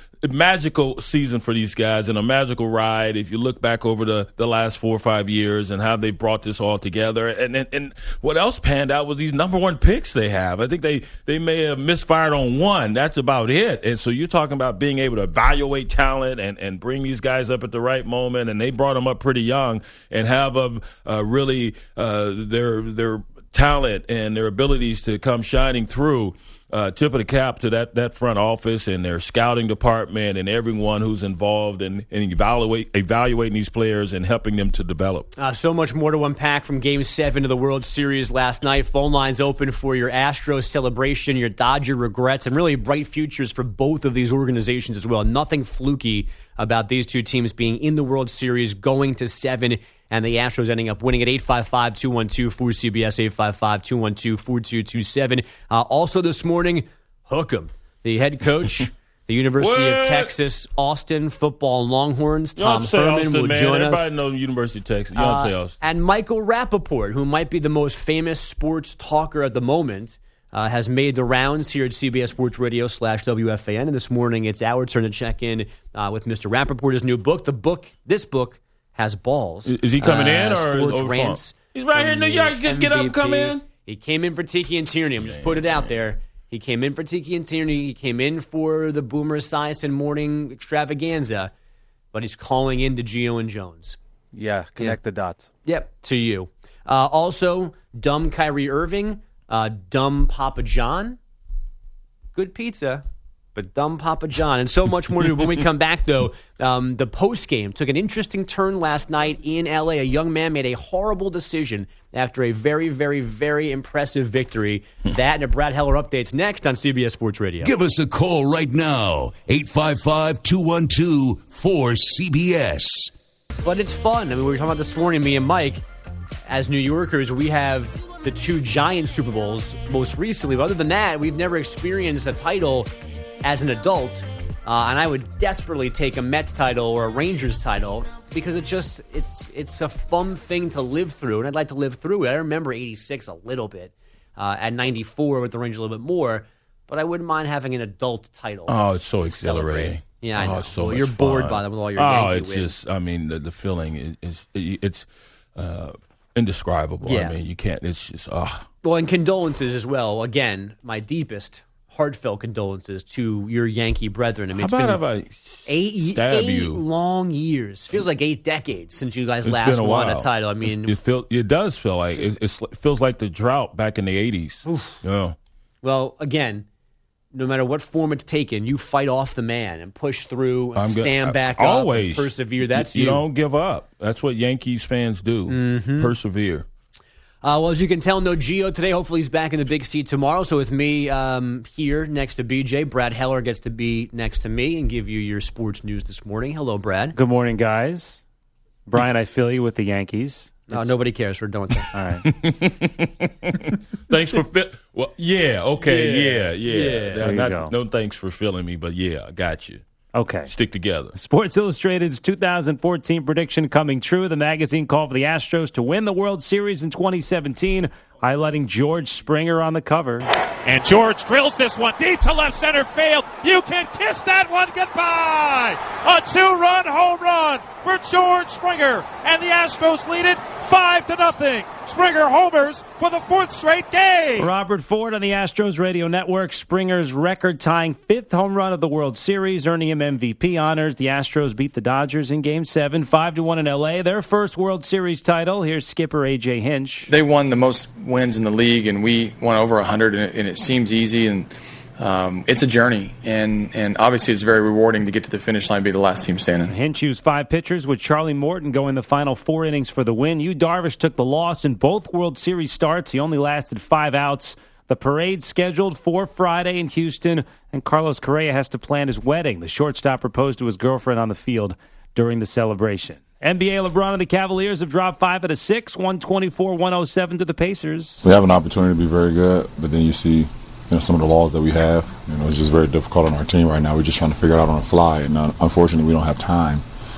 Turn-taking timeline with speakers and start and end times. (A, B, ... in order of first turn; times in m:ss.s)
0:00.2-0:35.3 A
0:35.4-1:04.0 B
0:59.6-1:00.3 A
1:02.6-1:05.8 A
1:05.1-1:31.5 B
1:19.6-1:23.6 A
1:25.2-1:25.9 A
1:32.1-1:34.0 B
1:34.3-1:35.5 C
1:35.6-1:41.2 B
1:42.3-1:43.0 B
1:43.5-1:57.7 B
1:57.6-2:03.1 D
2:03.6-2:05.8 B
2:06.5-2:12.9 B
2:13.4-2:32.7 B
2:28.7-2:38.7 A
2:37.0-2:37.4 B
2:38.8-2:45.0 B
2:44.5-2:46.8 A
2:45.6-2:50.9 B
2:49.4-2:55.4 A
2:54.6-2:55.0 B
2:55.8-2:56.6 B
2:57.3-3:03.2 B
3:00.8-3:06.6 A
3:05.5-3:06.1 B
3:07.4-3:17.2 B
3:17.2-3:18.2 C
3:18.9-3:20.9 C
3:20.7-3:21.9 B
3:21.9-3:22.2 C
3:22.3-3:29.8 A
3:25.8-3:27.3 B
3:27.2-3:27.7 C
3:30.1-3:30.5 C
3:30.5-3:31.1 A
3:31.1-3:40.3 C
3:40.6-3:54.5 E
3:54.4-4:07.1 C
4:07.1-4:16.7 F
4:16.7-4:38.2 C
4:38.2-4:46.8 G